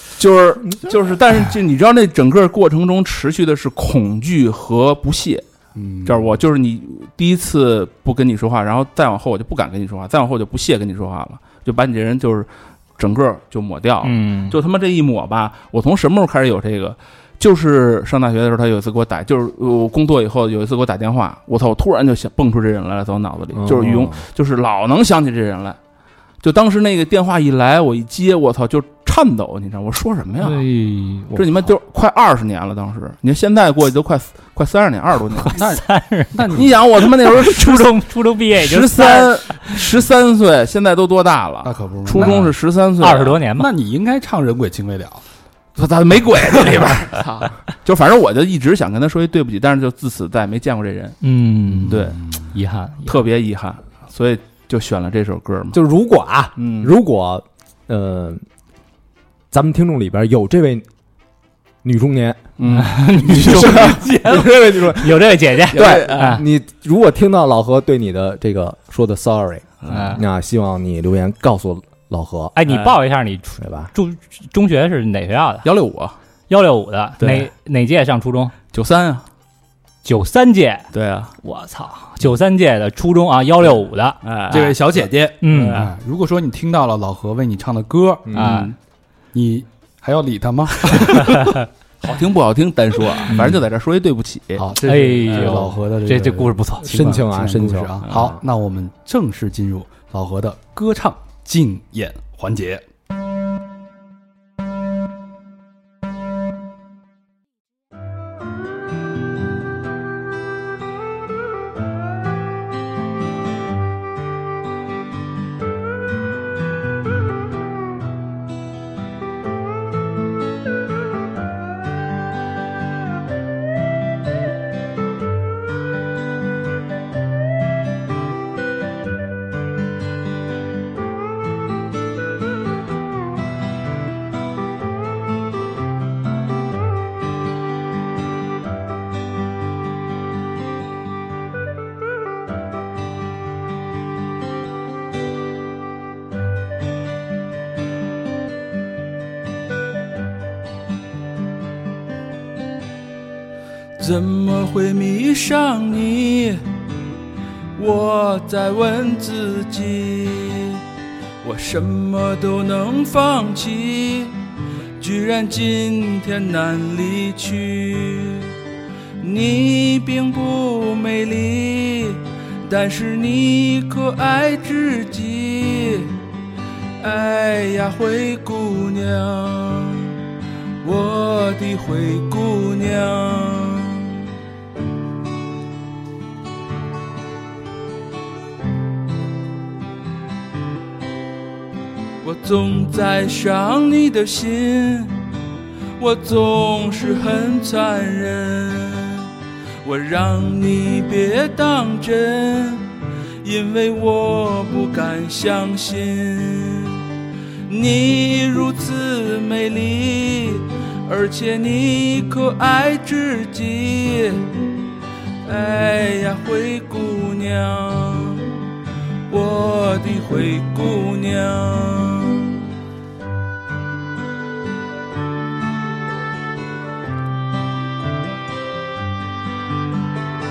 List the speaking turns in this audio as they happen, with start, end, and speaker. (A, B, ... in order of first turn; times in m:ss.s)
0:00.2-0:05.4 A
0:05.8-0:06.4 B
0:06.0-0:25.8 A
0:14.0-0:14.6 C
0:23.5-0:24.2 D
0:26.4-0:30.6 A
0:30.4-0:31.5 C
0:31.3-0:35.6 A
0:35.4-0:39.9 C
0:35.6-0:35.8 B
0:36.3-0:36.7 B
0:36.5-0:37.9 A
0:38.6-0:43.4 A
0:41.6-0:42.5 B
0:42.1-0:43.7 C
0:43.6-0:45.2 B
0:45.8-0:51.2 A
0:51.2-0:53.2 C
0:51.8-0:52.2 A
0:53.0-0:55.8 A
0:55.7-0:58.4 D
0:56.6-0:56.9 A
0:59.5-1:00.9 D
1:01.8-1:02.5 D
1:02.6-1:04.5 A
1:02.7-1:06.4 C
1:03.2-1:12.6 D
1:05.7-1:06.4 A
1:09.8-1:10.2 A
1:09.9-1:10.2 C
1:12.6-1:15.7 C
1:12.6-1:13.0 A
1:13.6-1:13.9 D
1:15.6-1:16.2 A
1:16.5-1:18.5 C
1:17.2-1:17.5 A
1:18.7-1:19.2 A
1:20.0-1:20.9 C
1:20.9-1:21.3 A
1:21.4-1:24.2 C
1:24.2-1:24.8 A
1:24.5-1:28.3 B
1:25.4-1:25.9 C
1:25.5-1:25.9 A
1:28.3-1:28.6 D
1:28.3-1:28.7 A
1:28.4-1:28.7 C
1:29.3-1:31.5 B
1:32.0-1:34.6 A
1:34.6-1:42.8 B
1:34.8-1:36.9 C
1:36.8-1:38.4 D
2:34.0-2:36.6 E
2:37.8-2:40.8 E
2:41.4-2:44.4 E
2:45.0-2:48.5 E
2:49.2-2:56.1 E
2:57.0-3:00.1 E
3:00.8-3:04.2 E
3:12.2-3:15.2 E
3:16.0-3:19.3 E
3:19.8-3:22.9 E
3:23.4-3:27.0 E
3:27.7-3:34.5 E
3:35.4-3:38.5 E
3:39.3-3:42.5 E